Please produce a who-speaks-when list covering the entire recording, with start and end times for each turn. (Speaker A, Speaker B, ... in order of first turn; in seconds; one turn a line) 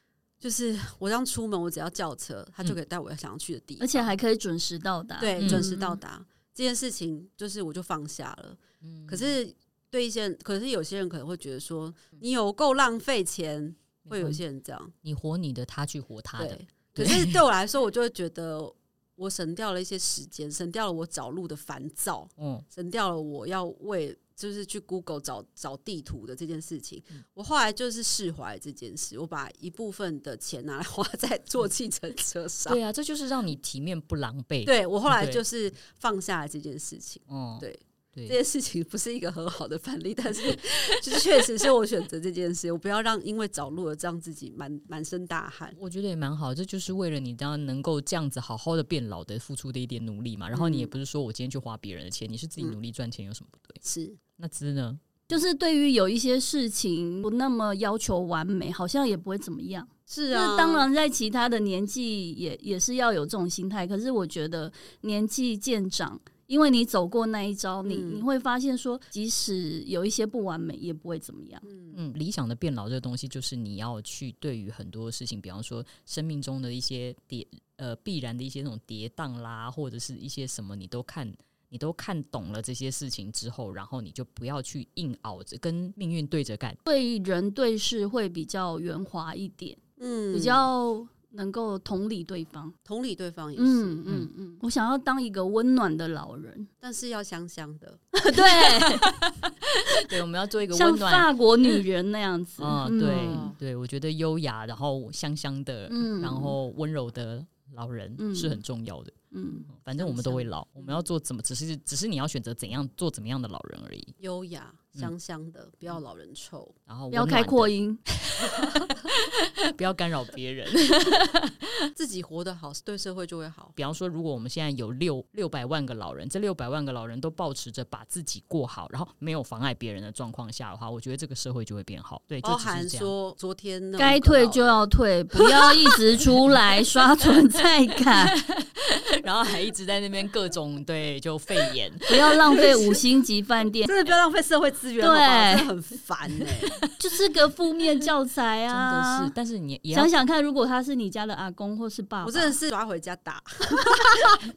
Speaker A: 0.4-4.1
Speaker B: 3.8-5.8
Speaker A: 5.2-14.9
Speaker C: 5.4-5.7
Speaker C: 8.8-9.3
Speaker C: 14.1-14.4
Speaker C: 15.0-17.4
Speaker A: 16.4-32.8
Speaker C: 22.4-22.6
Speaker C: 32.7-35.4
Speaker A: 34.6-45.8
Speaker C: 37.3-38.4
Speaker C: 40.5-41.4
Speaker C: 45.8-53.8
Speaker A: 50.5-50.9
Speaker A: 53.8-54.2
Speaker C: 54.4-55.3
Speaker B: 55.3-71.7
Speaker A: 60.1-60.9
Speaker A: 67.8-68.3
Speaker A: 71.7-72.0
Speaker C: 71.9-86.8
Speaker B: 86.9-89.8
Speaker A: 90.0-90.7
Speaker B: 90.3-92.8
Speaker A: 92.9-94.0
Speaker B: 93.6-96.7
Speaker A: 96.8-98.0
Speaker B: 98.1-99.2
Speaker C: 98.7-101.8
Speaker B: 100.7-103.5
Speaker C: 102.6-109.2
Speaker A: 103.0-103.6
Speaker B: 105.9-106.6
Speaker B: 108.2-108.6
Speaker B: 109.3-109.7
Speaker C: 109.7-114.2
Speaker A: 110.0-110.9
Speaker A: 114.2-116.8
Speaker C: 116.9-121.9
Speaker B: 117.1-118.0
Speaker A: 118.5-118.9
Speaker A: 122.0-123.8
Speaker C: 123.8-133.1
Speaker A: 132.4-134.8
Speaker B: 134.0-138.4
Speaker C: 138.0-142.8
Speaker B: 142.1-143.9
Speaker A: 142.5-143.0
Speaker A: 143.8-146.8
Speaker B: 145.0-145.7
Speaker B: 146.9-149.3
Speaker C: 148.7-150.1
Speaker B: 149.9-152.6
Speaker A: 152.2-154.4